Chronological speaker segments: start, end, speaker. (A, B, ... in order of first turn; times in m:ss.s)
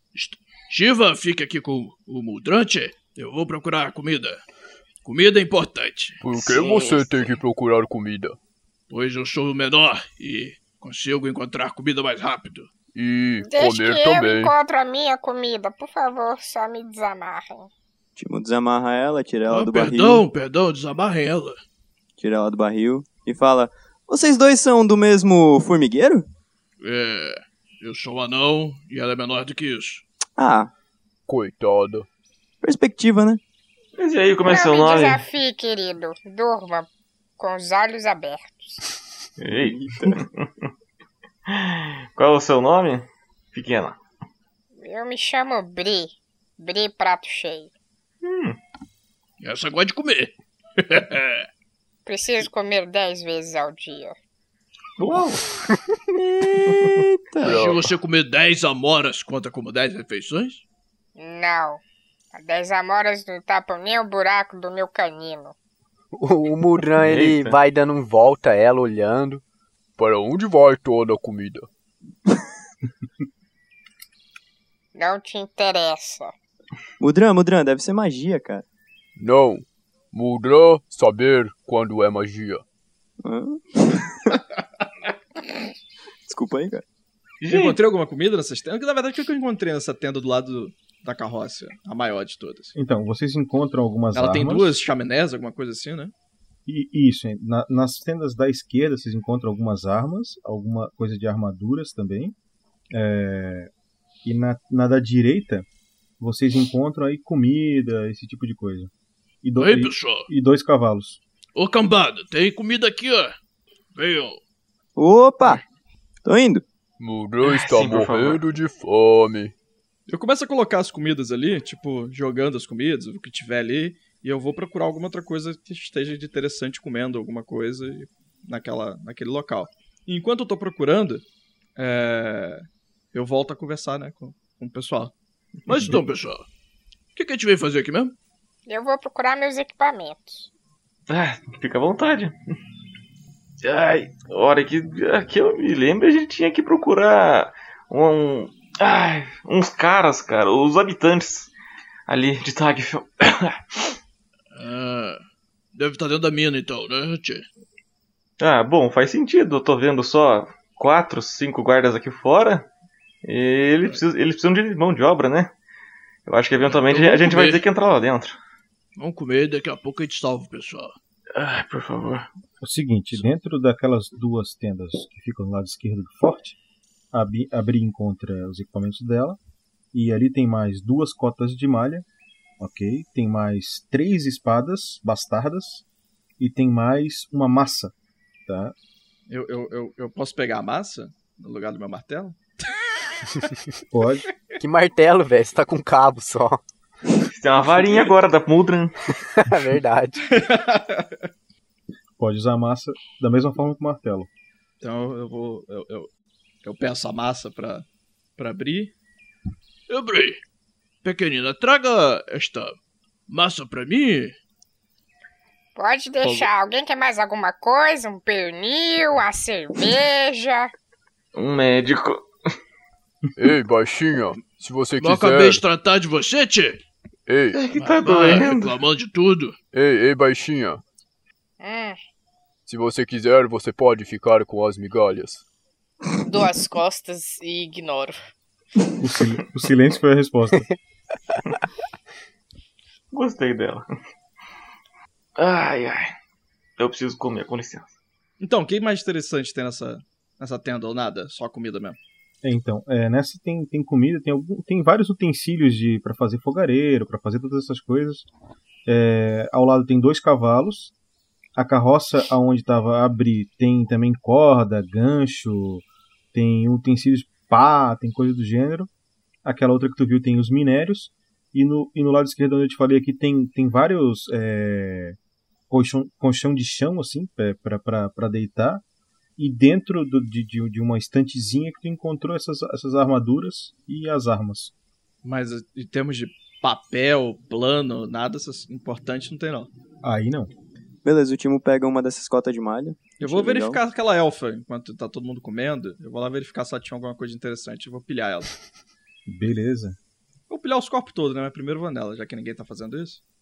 0:00.1-0:04.4 A
0:05.0-0:07.3 A
0:06.2-0:08.4 B
0:08.9-0:12.7 A
0:12.9-0:14.5 B
0:13.4-0:17.7 C
0:18.2-0:20.2 D
0:19.5-0:21.6 A
0:22.2-0:26.2 D
0:26.8-0:30.0 A
0:30.4-0:30.7 D
0:31.3-0:32.1 B
0:32.6-0:33.4 D
0:34.0-0:35.2 E
0:34.4-0:38.8 C
0:39.4-0:40.5 E
0:39.5-0:40.2 D
0:41.5-0:44.0 E
0:44.8-0:47.7 C
0:48.2-0:48.6 E
0:49.4-0:51.5 A
0:52.0-0:54.1 C
0:55.0-0:55.4 E
0:56.1-0:57.7 D
0:56.7-0:57.0 E
0:57.4-0:57.8 B
0:57.5-1:00.6 A
1:01.2-1:01.8 C
1:02.3-1:05.5 C
1:06.1-1:09.4 F
1:07.0-1:07.6 E
1:10.0-1:11.7 B
1:14.9-1:16.3 C
1:17.0-1:18.6 D
1:19.2-1:22.6 B
1:23.2-1:24.4 D
1:26.2-1:26.8 D
1:27.4-1:27.8 E
1:27.5-1:32.8 G
1:32.7-1:34.8 H
1:34.1-1:36.1 G
1:36.6-1:42.3 H
1:42.9-1:43.7 H
1:44.2-1:45.6 H
1:46.2-1:48.9 H
1:49.4-1:51.2 H
1:49.6-1:50.3 A
1:51.6-1:53.3 A
1:53.9-1:54.4 A
1:55.0-1:55.6 D
1:56.2-1:56.6 D
1:57.0-1:59.5 B
1:57.4-1:58.4 E
2:00.1-2:11.2 G
2:11.8-2:15.1 G
2:15.7-2:16.5 A
2:17.1-2:18.1 A
2:18.6-2:20.5 C
2:21.1-2:22.4 E
2:23.6-2:31.5 E
2:32.1-2:33.9 E
2:34.5-2:35.2 A
2:35.7-2:37.5 A
2:38.4-2:42.7 E
2:43.2-2:45.5 E
2:46.2-2:48.4 E
2:46.6-2:47.6 A
2:49.0-2:50.9 A
2:51.3-2:52.3 E
2:52.6-2:56.6 H
2:57.1-2:59.4 H
2:59.9-3:02.0 H
3:02.6-3:05.8 H
3:06.4-3:07.9 H
3:08.5-3:08.7 H
3:09.3-3:12.4 G
3:13.9-3:14.3 H
3:14.6-3:16.6 F
3:17.3-3:19.0 E
3:19.3-3:20.3 F
3:20.3-3:21.2 G
3:22.2-3:24.3 H
3:24.8-3:26.1 G
3:26.6-3:27.8 G
3:28.4-3:28.9 G
3:29.9-3:30.4 A
3:31.0-3:32.7 A
3:33.3-3:34.3 A
3:35.8-3:40.7 C
3:36.2-3:36.5 A
3:41.3-3:42.3 E
3:43.4-3:45.6 B
3:45.0-3:46.8 A
3:47.2-3:47.6 B
3:47.5-3:48.8 E
3:47.7-3:49.6 A
3:49.7-3:50.8 B
3:51.6-3:52.0 C
3:52.6-3:55.4 B
3:56.2-3:58.2 I
3:59.0-4:00.7 H
4:03.1-4:03.8 E
4:05.4-4:06.1 E
4:06.8-4:07.9 E
4:08.4-4:12.0 G
4:12.4-4:18.2 H
4:18.9-4:20.9 H
4:21.6-4:28.9 H
4:29.4-4:35.2 H
4:35.7-4:38.8 H
4:39.4-4:44.7 H
4:45.2-4:49.7 G
4:50.0-4:50.5 H
4:51.0-4:53.8 D
4:53.2-4:58.5 G
4:59.3-5:00.0 H
5:00.5-5:03.2 G